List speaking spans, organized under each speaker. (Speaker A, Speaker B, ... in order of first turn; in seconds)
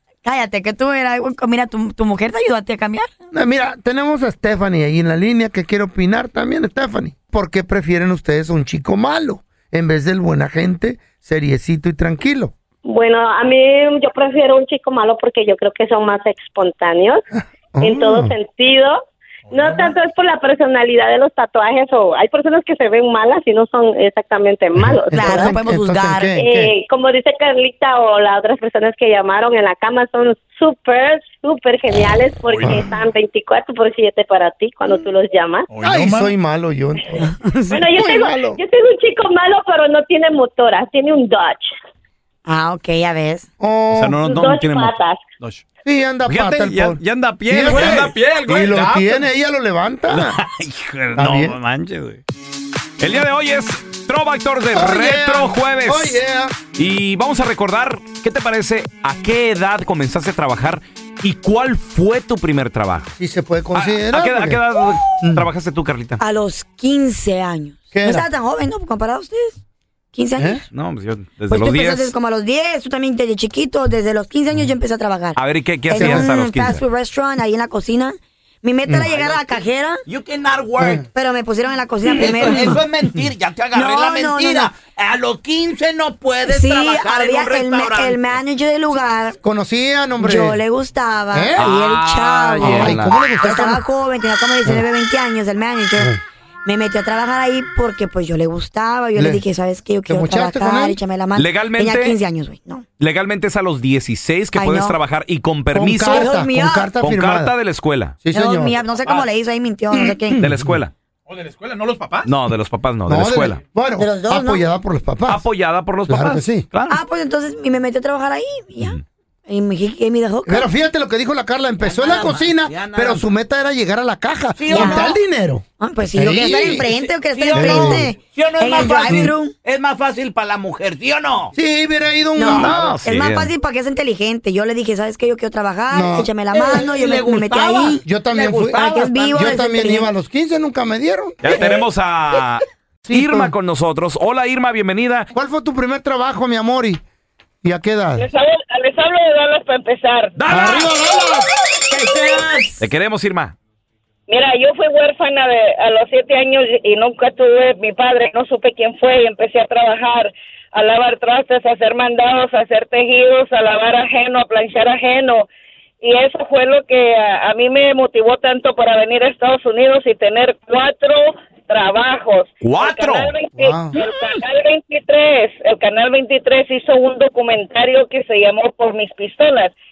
Speaker A: 0.2-3.1, 25.1-26.4, 37.3-37.8, 42.5-43.5, 66.2-69.6, 70.1-70.6, 71.5-75.4, 75.9-80.0, 81.1-82.8, 83.7-84.7, 86.5-89.4, 90.2-96.1, 96.6-102.8, 104.5-105.0, 106.0-106.9, 108.3-110.4, 114.0-114.6, 116.9-120.7, 124.7-125.1, 125.8-129.5, 132.3-138.0, 138.7-140.1, 152.1-152.5
Speaker B: 3.3-12.5, 17.3-18.3, 24.9-26.7, 35.8-37.3, 37.9-38.6, 43.6-44.2, 45.8-50.4, 51.1-51.5, 54.7-56.5, 63.2-64.6, 67.9-68.2, 70.4-70.6, 75.9-76.3, 78.9-79.2, 82.4-82.7, 89.4-90.6, 91.3-91.7, 92.6-93.8, 99.2-99.4, 100.1-101.0, 105.7-107.5, 108.2-108.8, 109.9-110.8, 113.1-115.4, 116.1-116.7, 120.5-125.6, 126.1-126.9, 127.5-128.1, 128.9-129.3, 131.5-133.0, 135.9-136.3, 138.0-141.8, 143.1-143.5, 145.3-147.0, 147.6-148.3, 150.5-151.5, 173.6-173.9
Speaker C: 12.8-17.2, 17.8-25.5, 26.4-35.6, 37.7-41.7, 44.2-45.2
Speaker D: 19.5-19.9, 32.5-32.9, 35.7-36.4, 47.7-49.2, 111.3-112.3
Speaker E: 43.9-45.6, 46.3-48.9, 50.1-52.2, 53.0-56.2, 56.7-63.1, 63.7-66.2, 70.7-72.1, 75.3-76.8, 91.6-93.1, 101.3-102.2, 103.0-106.3, 107.0-108.2, 110.4-110.9, 112.2-113.6, 115.3-117.0, 132.5-133.5, 141.4-145.3, 150.4-150.9, 152.8-153.5, 172.6-173.3
Speaker F: 80.1-81.0, 82.1-88.2, 121.8-123.3, 124.6-125.2, 126.5-131.5, 136.5-139.4, 151.9-152.7
Speaker G: 148.2-150.4, 154.3-165.5, 166.0-179.7